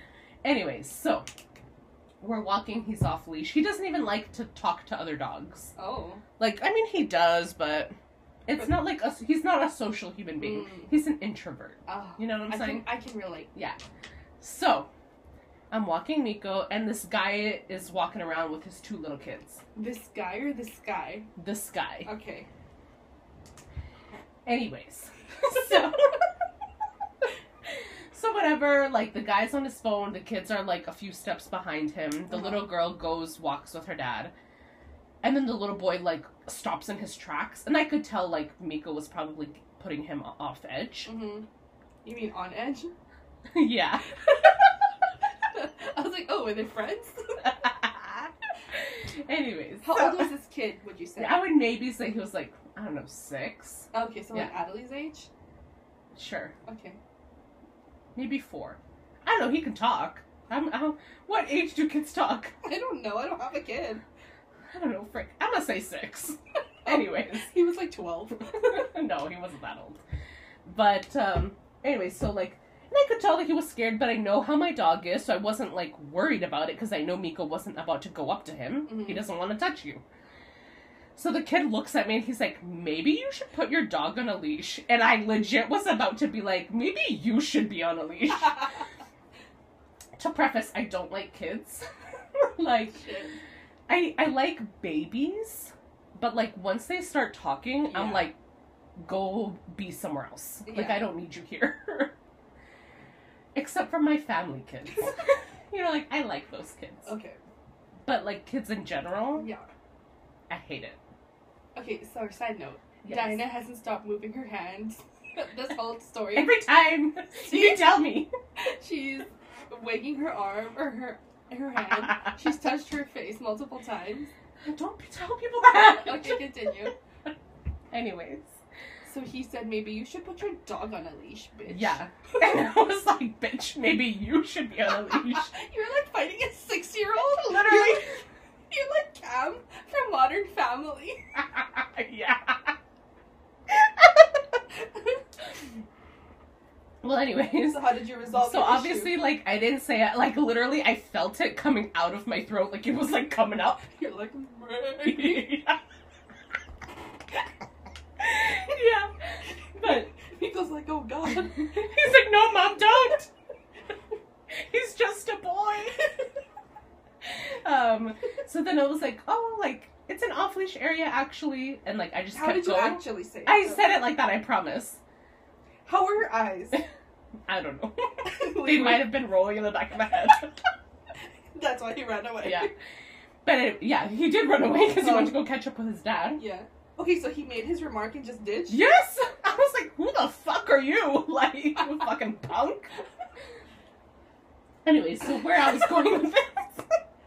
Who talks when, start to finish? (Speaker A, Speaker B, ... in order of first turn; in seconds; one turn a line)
Speaker A: 0.4-1.3
Speaker A: 2.2-5.7
Speaker B: 5.8-6.2
Speaker A: 6.4-7.9
Speaker A: 8.5-12.9
Speaker B: 10.4-10.9
Speaker B: 11.9-13.5
Speaker A: 13.5-13.8
Speaker A: 14.4-14.9
Speaker A: 15.7-19.6
Speaker B: 19.8-21.3
Speaker A: 21.4-22.1
Speaker B: 22.1-22.5
Speaker A: 24.5-26.2
Speaker A: 28.1-34.3
Speaker B: 32.3-32.6
Speaker A: 35.2-41.1
Speaker B: 41.1-41.5
Speaker B: 42.0-42.9
Speaker A: 43.5-44.1
Speaker B: 45.5-47.5
Speaker A: 47.4-48.3
Speaker A: 48.9-50.3
Speaker B: 49.8-51.5
Speaker A: 51.2-54.5
Speaker B: 53.9-55.3
Speaker A: 56.1-56.5
Speaker B: 56.7-57.0
Speaker A: 58.1-62.5
Speaker B: 62.6-64.0
Speaker A: 64.7-67.5
Speaker B: 66.8-68.9
Speaker A: 68.6-70.0
Speaker A: 70.7-80.0
Speaker B: 78.9-79.2
Speaker A: 81.2-88.8
Speaker A: 90.2-91.9
Speaker A: 92.4-93.0
Speaker B: 92.9-93.4
Speaker A: 93.9-98.4
Speaker B: 97.9-98.3
Speaker A: 99.0-102.1
Speaker B: 100.7-101.1
Speaker A: 103.5-107.1
Speaker B: 107.0-107.4
Speaker A: 108.1-109.5
Speaker B: 109.4-109.7
Speaker A: 110.5-111.0
Speaker B: 111.8-116.7
Speaker A: 113.0-113.4
Speaker A: 116.3-118.3
Speaker B: 117.3-118.0
Speaker B: 118.6-124.3
Speaker A: 124.6-126.5
Speaker B: 125.8-127.0
Speaker A: 127.9-128.6
Speaker B: 129.1-132.4
Speaker A: 131.7-135.5
Speaker B: 135.3-138.2
Speaker A: 137.4-138.1
Speaker B: 138.7-141.2
Speaker A: 141.4-142.8
Speaker A: 147.0-153.9
Speaker B: 147.5-149.2
Speaker B: 153.9-155.6
Speaker A: 155.0-155.8
Speaker A: 158.2-159.1
Speaker A: 159.8-160.1
Speaker B: 159.8-162.0
Speaker A: 161.6-163.3
Speaker A: 164.5-166.0
Speaker A: 167.2-175.0
Speaker B: 172.3-173.9
Speaker B: 175.9-176.8
Speaker A: 177.5-180.5
Speaker B: 178.2-179.2
Speaker B: 181.5-182.7
Speaker A: 182.4-182.7
Speaker A: 183.4-186.4
Speaker B: 184.9-185.4
Speaker B: 186.4-188.8
Speaker A: 188.7-192.9
Speaker A: 194.8-196.9